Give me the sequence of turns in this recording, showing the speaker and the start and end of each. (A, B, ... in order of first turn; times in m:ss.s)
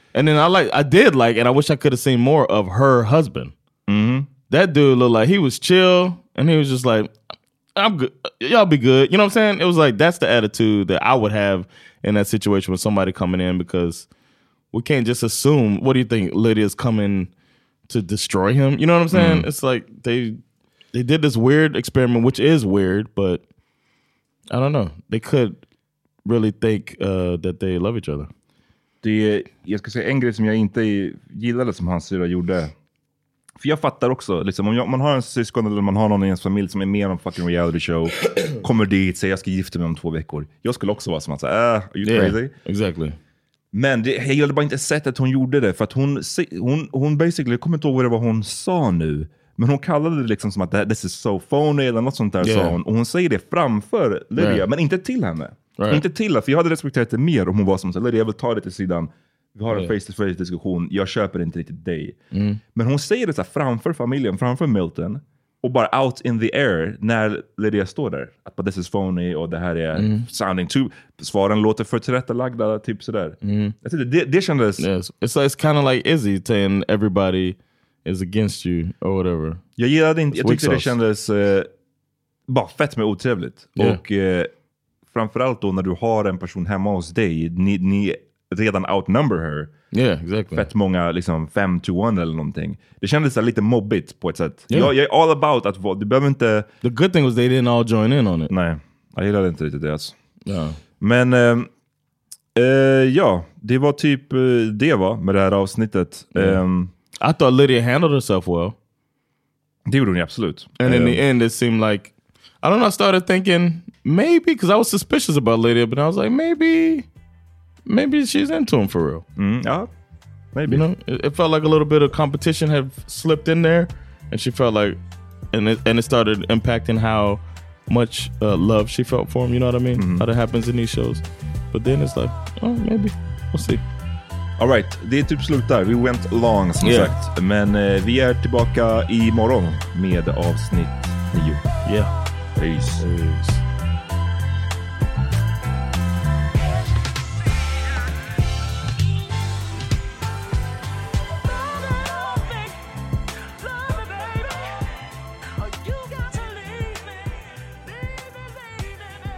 0:00.1-0:03.5 A
0:03.9-0:04.3 B
0:04.5-0:07.1 A
0:07.7-0:14.1 A
0:14.7-0:17.3 A
0:17.9-0:20.4 A
0:19.1-0:19.5 B
0:20.9-0:23.4 A
0:24.5-0:25.6 A
0:26.2-0:28.3 A
0:29.0-0:32.7 B
0:33.6-0:42.5 B
0:42.0-0:43.2 A
0:43.7-1:02.2 B
0:52.4-0:52.8 A
0:54.4-0:54.6 A
0:55.8-0:56.0 A
1:02.3-1:02.6 A
1:02.7-1:14.8 B
1:09.9-1:10.3 A
1:13.4-1:13.7 A
1:14.8-1:19.6 A
1:19.8-1:21.7 B
1:20.3-1:20.9 A
1:22.5-1:24.5 B
1:25.1-1:29.7 B
1:29.9-1:30.7 A
1:30.5-1:36.7 B
1:36.8-1:38.5 A
1:38.5-1:40.2 B
1:40.4-1:40.8 A
1:41.0-1:41.7 B
1:42.5-1:46.9 B
1:46.3-1:46.6 A
1:47.2-1:48.7 A
1:49.8-1:51.2 B
1:50.8-1:57.1 A
1:57.8-1:59.2 A
1:59.4-1:59.9 B
2:00.5-2:00.8 B
2:00.7-2:05.0 A
2:05.5-2:13.8 A
2:10.0-2:10.2 B
2:14.6-2:21.6 B
2:16.8-2:17.1 A
2:21.8-2:22.1 A
2:22.6-2:23.0 B
2:23.0-2:23.6 A